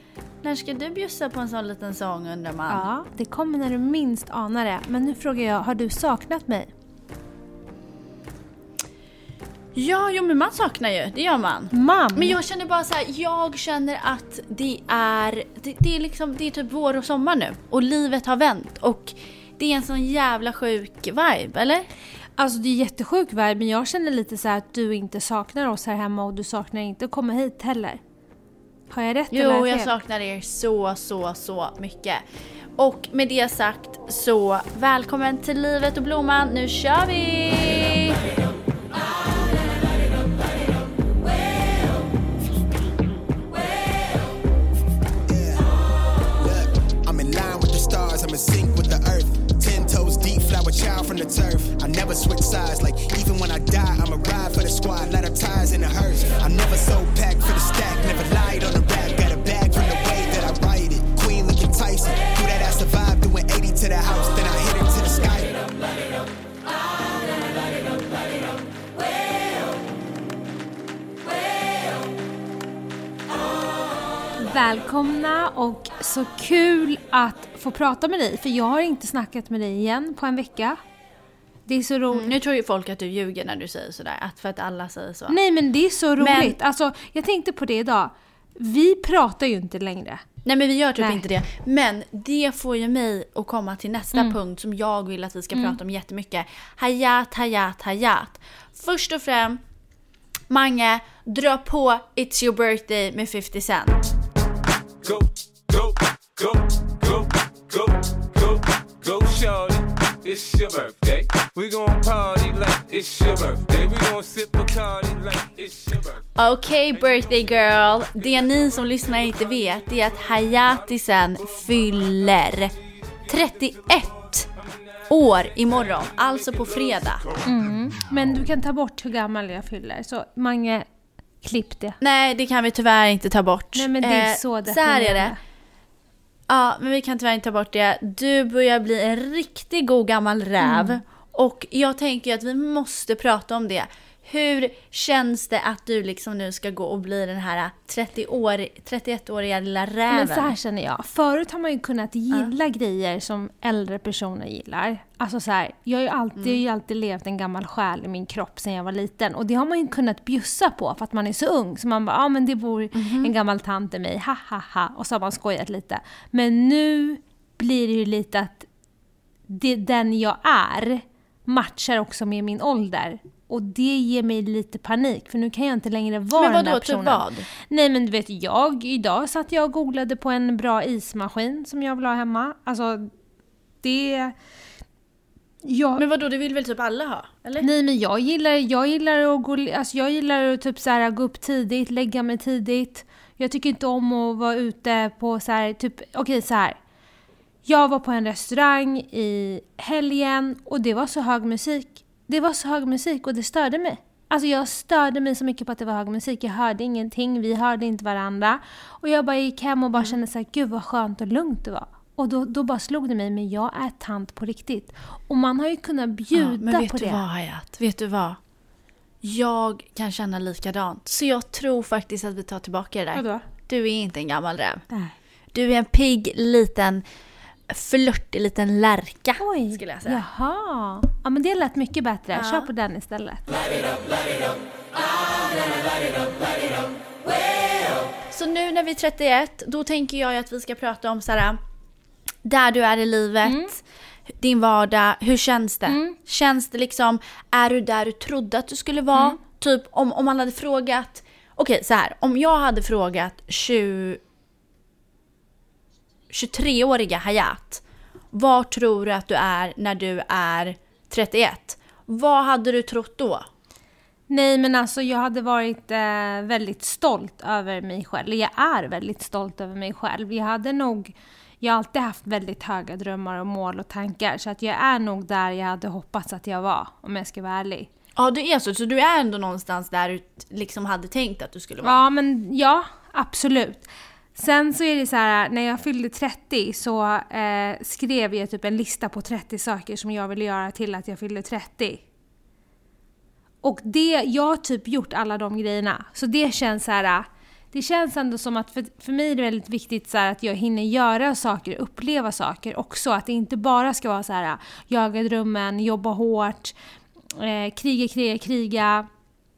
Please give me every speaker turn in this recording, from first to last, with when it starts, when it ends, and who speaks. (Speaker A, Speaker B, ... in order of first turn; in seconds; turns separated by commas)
Speaker A: 0.4-2.9, Speaker B: 2.7-6.7, Speaker A: 9.7-21.9, Speaker B: 11.7-12.4, Speaker B: 22.4-28.0, Speaker B: 28.9-29.9, Speaker A: 29.3-32.2, Speaker A: 32.8-38.1, Speaker C: 45.3-45.7, Speaker C: 46.4-65.5, Speaker B: 74.4-80.8, Speaker B: 81.7-82.3, Speaker A: 82.1-85.4, Speaker B: 85.3-90.2, Speaker A: 86.2-86.5, Speaker A: 90.4-99.6, Speaker B: 91.0-91.2, Speaker A: 100.5-104.0, Speaker D: 105.0-116.2, Speaker A: 116.3-122.7, Speaker A: 123.3-124.5, Speaker A: 125.1-127.3, Speaker B: 127.4-130.9, Speaker B: 131.4-132.0, Speaker A: 132.0-135.3, Speaker B: 133.7-135.4, Speaker A: 136.5-150.5, Speaker B: 140.6-141.0, Speaker B: 150.1-168.7, Speaker A: 156.4-156.6, Speaker A: 162.9-163.3, Speaker B: 169.5-183.1, Speaker A: 176.3-177.4, Speaker B: 183.8-184.3, Speaker B: 185.6-186.0, Speaker A: 185.9-187.7, Speaker B: 187.6-196.8, Speaker B: 197.6-217.2, Speaker A: 216.3-218.4, Speaker A: 219.2-224.8, Speaker B: 223.1-223.4, Speaker A: 225.5-227.0, Speaker A: 227.7-230.2, Speaker B: 229.4-233.5, Speaker A: 232.3-232.7, Speaker A: 238.3-241.6, Speaker A: 242.4-243.8, Speaker B: 243.4-243.7, Speaker A: 244.4-254.2, Speaker B: 245.9-246.2, Speaker A: 256.3-263.5, Speaker B: 264.3-277.9, Speaker A: 278.2-282.0, Speaker B: 281.8-292.0, Speaker B: 293.6-306.7, Speaker B: 307.3-309.1